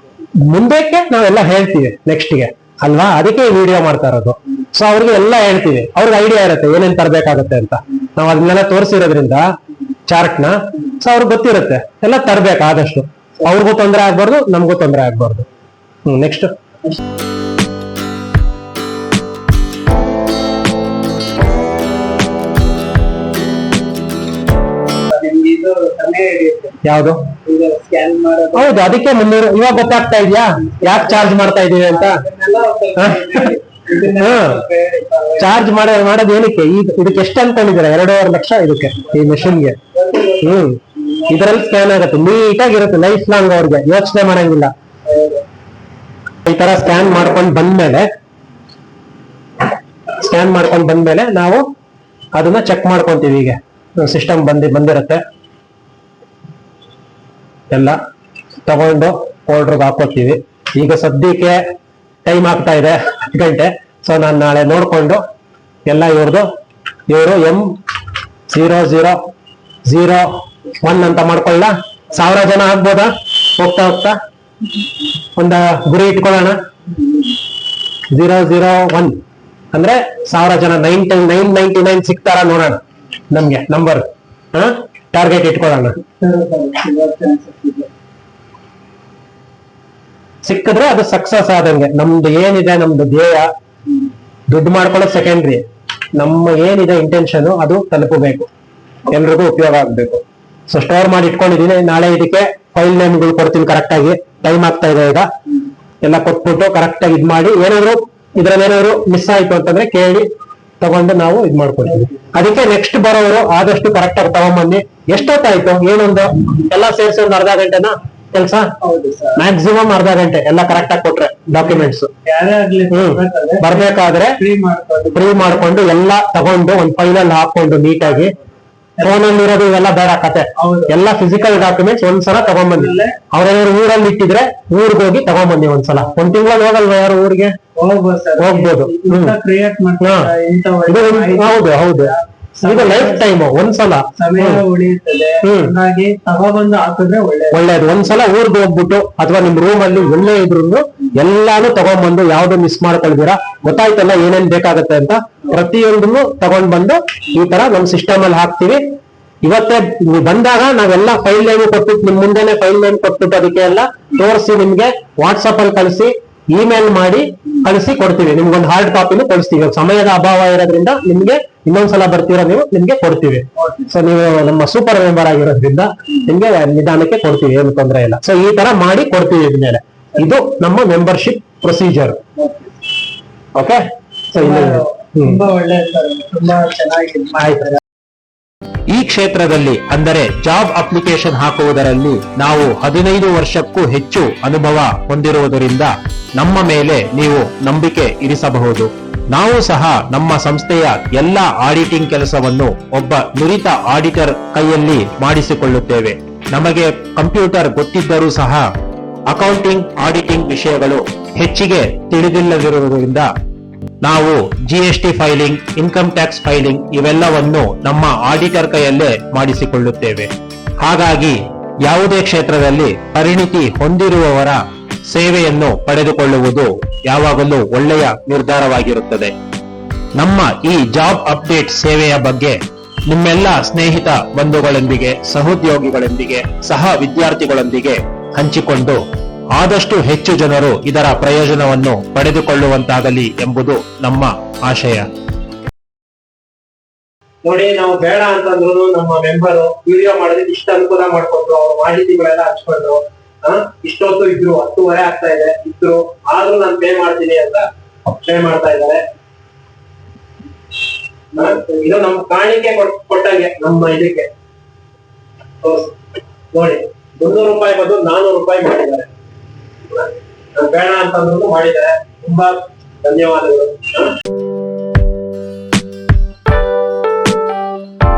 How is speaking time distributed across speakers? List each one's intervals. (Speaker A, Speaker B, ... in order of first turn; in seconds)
Speaker A: 0.5-9.5, 10.1-15.4, 16.1-16.5, 26.8-27.2, 28.5-32.2, 33.0-33.5, 34.1-34.6, 35.4-39.8, 40.4-44.7, 46.4-48.1, 50.2-51.6, 52.3-55.2, 57.7-58.0, 58.6-61.6, 62.2-65.2, 65.9-66.5, 67.1-67.7, 68.5-69.2, 69.8-74.2, 75.3-76.6, 78.1-79.2, 79.7-82.8, 83.3-86.0, 90.4-93.5, 94.5-95.6, 96.2-98.5, 99.1-105.3, 106.0-110.3, 110.8-118.7, 119.3-122.1, 122.9-124.4, 125.1-128.3, 129.0-137.6, 138.4-139.3, 140.0-140.3, 140.9-144.6, 145.4-145.7, 147.5-158.8, 159.4-182.2, 183.6-185.4, 187.4-187.8, 247.4-259.0, 261.3-264.3, 265.6-265.9, 266.5-269.1, 269.9-274.1
Speaker B: 25.1-26.8, 27.4-28.8, 30.6-35.6, 39.0-41.4, 45.1-45.4, 86.2-87.9, 111.9-112.3, 118.8-119.4, 121.6-125.7, 130.6-131.0, 132.4-133.1, 137.8-143.3, 144.2-147.6, 173.6-173.9, 182.3-182.8, 184.4-187.8
Speaker C: 188.9-208.7, 209.3-213.3, 214.0-229.3, 230.2-239.0, 239.5-245.1